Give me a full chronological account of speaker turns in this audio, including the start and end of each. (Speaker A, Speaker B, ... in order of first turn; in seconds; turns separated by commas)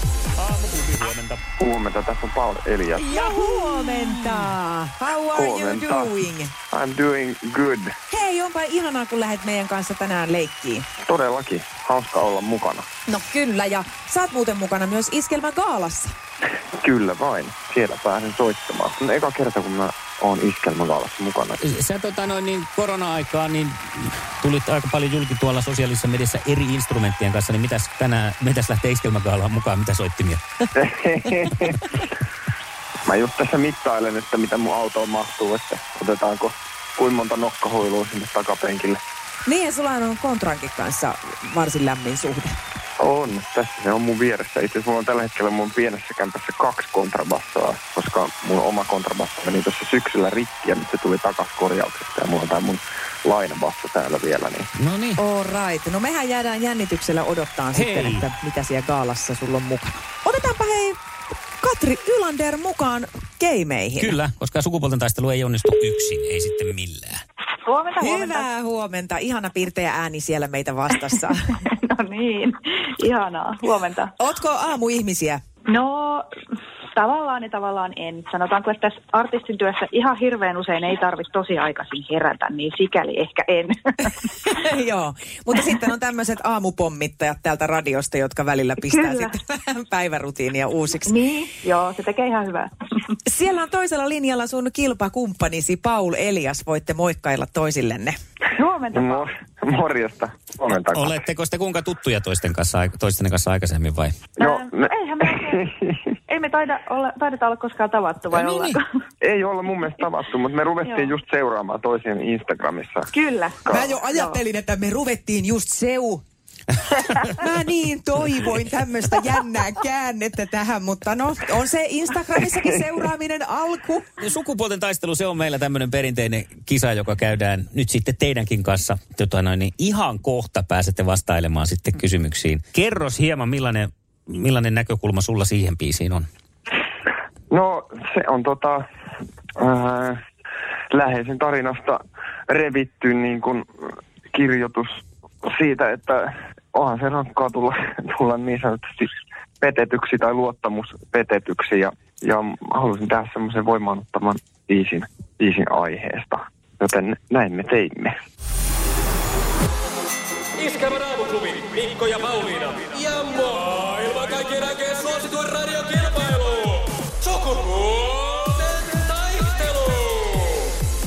Speaker A: 0.3-1.4, Speaker B: 1.6-3.2, Speaker C: 3.0-6.5, Speaker A: 3.2-3.6, Speaker B: 5.3-6.1, Speaker B: 6.7-7.9, Speaker C: 8.1-10.8, Speaker B: 11.0-12.9, Speaker C: 13.1-16.1, Speaker B: 16.8-21.6, Speaker A: 21.6-30.4, Speaker B: 30.8-31.9, Speaker B: 33.0-39.0, Speaker C: 39.5-42.5, Speaker B: 43.0-54.7, Speaker A: 54.8-55.2, Speaker C: 55.2-61.0, Speaker A: 57.7-58.2, Speaker C: 61.6-64.2, Speaker A: 64.0-67.2, Speaker D: 67.6-68.5, Speaker C: 68.0-71.5, Speaker D: 71.6-74.1, Speaker C: 74.2-75.4, Speaker D: 75.7-76.2, Speaker D: 76.9-84.2, Speaker C: 84.5-91.2, Speaker D: 88.9-89.3, Speaker D: 91.1-92.7, Speaker C: 93.3-98.2, Speaker D: 98.5-99.3, Speaker B: 98.9-101.2, Speaker A: 100.7-104.2, Speaker B: 104.4-104.9, Speaker D: 104.4-105.7, Speaker B: 105.5-105.9, Speaker D: 106.3-108.8, Speaker A: 108.3-108.8, Speaker B: 109.2-113.1, Speaker D: 110.8-111.1, Speaker D: 113.1-114.4, Speaker C: 113.7-116.2, Speaker C: 117.2-124.1, Speaker A: 124.2-136.3, Speaker B: 137.5-138.8, Speaker B: 139.6-140.2, Speaker B: 140.9-158.2, Speaker E: 160.6-170.6